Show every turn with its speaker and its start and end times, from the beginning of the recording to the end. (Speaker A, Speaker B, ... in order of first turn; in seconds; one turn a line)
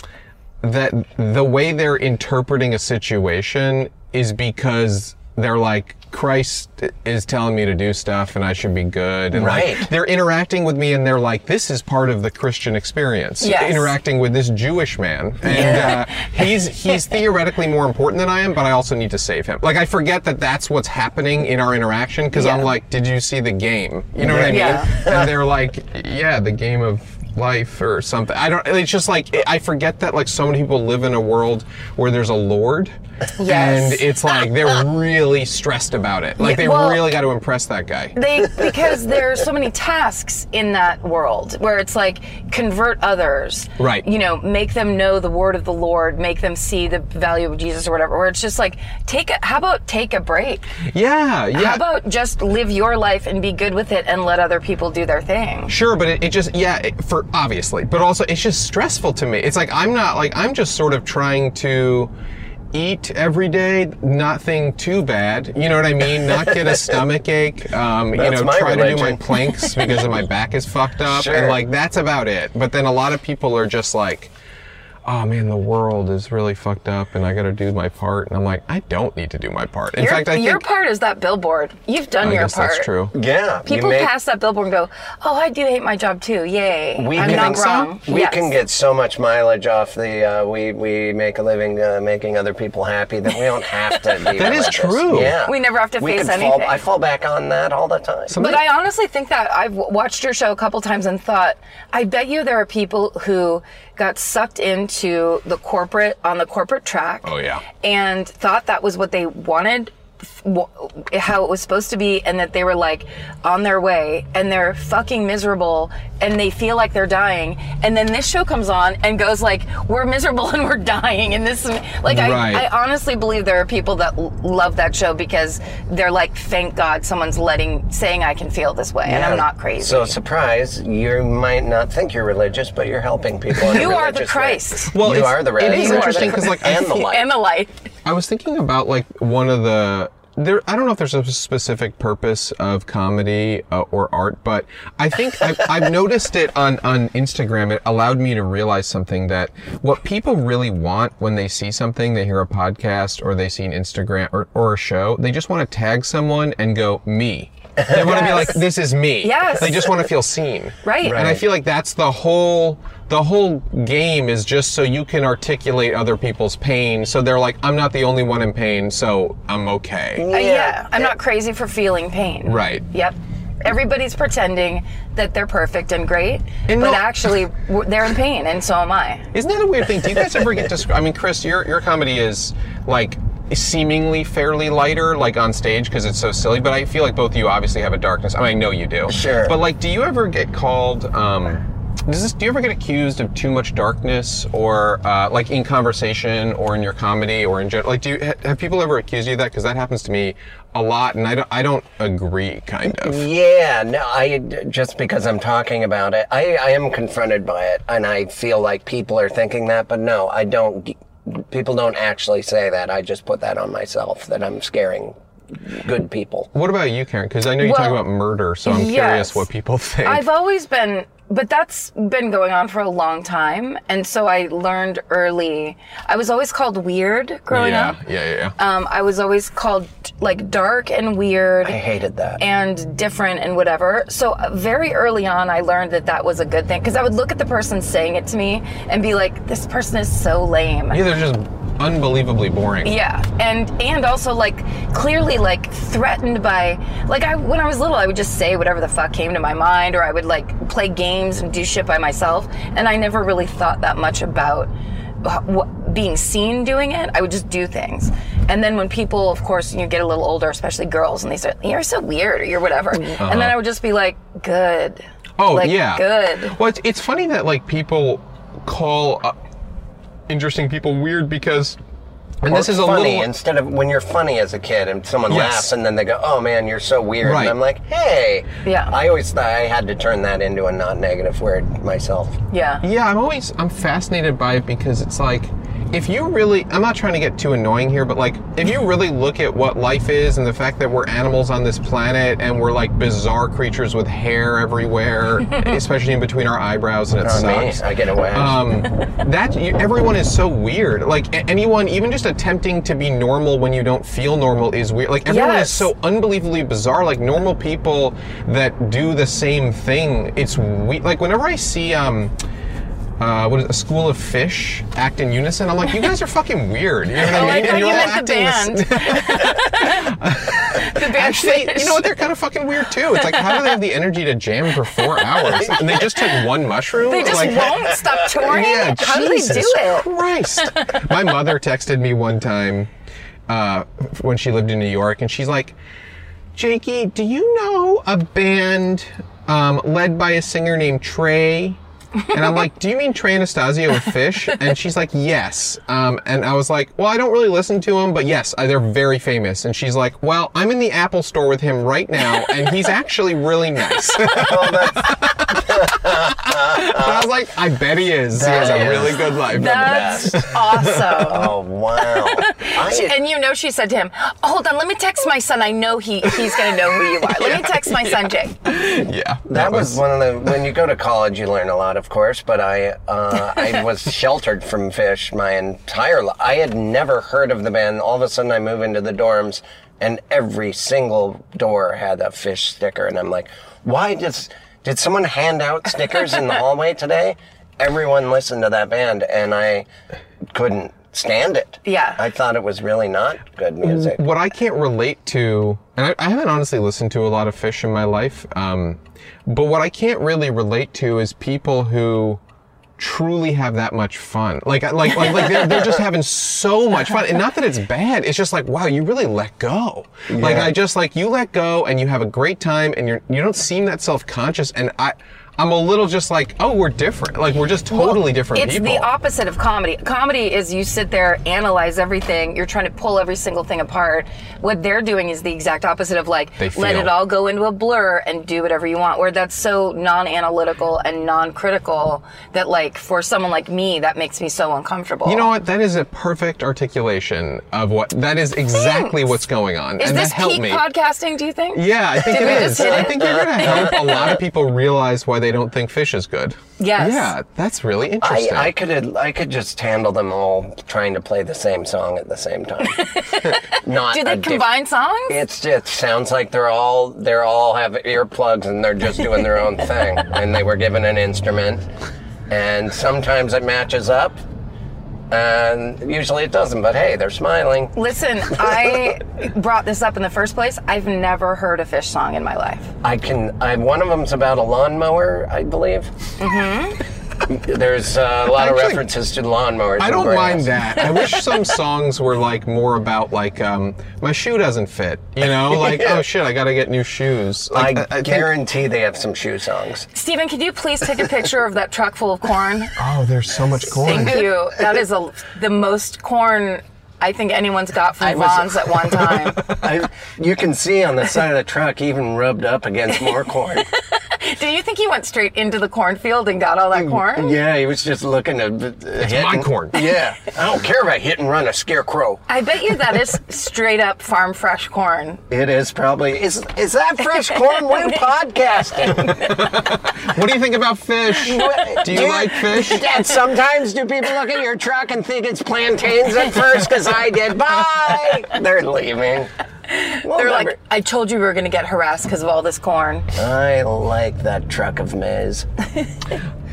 Speaker A: 0.6-38.2
Speaker B: 9.3-9.9
Speaker C: 13.4-13.9
Speaker B: 15.4-16.0
Speaker C: 15.5-16.0
Speaker C: 22.3-22.7
Speaker B: 24.2-25.3
Speaker C: 24.5-24.9
Speaker C: 33.4-34.0
Speaker C: 36.4-37.1
Speaker C: 38.1-50.7
Speaker A: 43.8-44.0
Speaker A: 50.9-51.8
Speaker C: 51.5-55.7
Speaker A: 55.7-62.1
Speaker A: 62.7-74.3
Speaker B: 66.5-66.9
Speaker B: 68.1-70.0
Speaker B: 71.0-71.6
Speaker A: 75.0-80.6
Speaker C: 80.0-82.9
Speaker A: 82.2-83.1
Speaker B: 83.1-84.1
Speaker C: 83.7-88.5
Speaker B: 87.0-98.3
Speaker A: 87.2-87.9
Speaker A: 94.3-95.3
Speaker C: 95.4-96.8
Speaker A: 98.3-98.6
Speaker C: 98.4-130.2
Speaker A: 107.2-107.6
Speaker A: 122.1-122.7
Speaker B: 129.0-137.3
Speaker C: 133.6-137.7
Speaker A: 134.9-137.2
Speaker A: 138.0-170.2
Speaker C: 157.9-158.6
Speaker C: 159.2-159.9
Speaker C: 160.8-161.2
Speaker B: 161.0-161.4
Speaker B: 170.2-171.1
Speaker C: 170.3-179.3
Speaker A: 172.4-172.8
Speaker A: 176.7-177.2
Speaker A: 179.3-203.2
Speaker B: 189.1-189.6
Speaker B: 202.9-215.2
Speaker B: 215.7-216.5
Speaker A: 216.5-220.2
Speaker C: 217.6-218.0
Speaker C: 218.6-219.4
Speaker C: 220.0-228.0
Speaker A: 227.5-228.6
Speaker C: 228.6-231.8
Speaker B: 231.6-232.4
Speaker C: 232.4-241.0
Speaker A: 240.9-242.9
Speaker C: 242.8-254.7
Speaker C: 255.2-266.5
Speaker A: 263.1-263.5
Speaker A: 265.4-269.4
Speaker A: 270.3-271.8
Speaker A: 272.4-273.3
Speaker B: 272.4-282.4
Speaker A: 275.3-275.7
Speaker A: 277.2-277.6
Speaker C: 278.6-278.9
Speaker C: 282.5-282.8
Speaker A: 282.8-297.8
Speaker B: 297.2-298.8
Speaker A: 298.3-312.3
Speaker C: 305.2-305.9
Speaker A: 313.2-332.9
Speaker C: 317.2-322.1
Speaker C: 323.2-323.7
Speaker C: 327.0-330.1
Speaker A: 333.5-335.7
Speaker A: 336.5-361.1
Speaker B: 354.3-357.3
Speaker B: 358.3-360.5
Speaker C: 358.4-368.5
Speaker B: 361.2-363.2
Speaker A: 366.5-370.0
Speaker B: 369.5-389.9
Speaker B: 390.5-394.2
Speaker C: 391.8-392.2
Speaker A: 393.8-402.4
Speaker A: 403.0-419.1
Speaker B: 410.3-410.7
Speaker C: 417.9-435.5
Speaker A: 426.6-427.1
Speaker A: 435.2-440.8
Speaker C: 438.7-439.1
Speaker C: 440.0-444.3
Speaker A: 441.7-448.7
Speaker B: 442.2-444.3
Speaker C: 446.8-447.3
Speaker B: 448.2-453.0
Speaker C: 452.9-455.3
Speaker B: 453.7-454.7
Speaker B: 455.3-461.8
Speaker B: 462.5-464.4
Speaker B: 465.3-467.9
Speaker C: 467.9-472.9
Speaker B: 473.0-476.1
Speaker C: 476.4-477.0
Speaker B: 477.4-481.0
Speaker A: 478.5-479.0
Speaker A: 480.0-488.5
Speaker B: 485.7-486.2
Speaker B: 487.7-490.1
Speaker C: 490.1-492.9
Speaker A: 492.9-494.5
Speaker C: 493.9-499.6
Speaker B: 498.2-503.9
Speaker C: 504.1-507.6
Speaker B: 506.9-512.4
Speaker A: 509.2-510.0
Speaker C: 512.5-515.4
Speaker B: 515.5-519.5
Speaker A: 519.2-523.2
Speaker B: 521.4-529.5
Speaker C: 529.9-533.3
Speaker B: 530.2-530.8
Speaker B: 533.3-535.7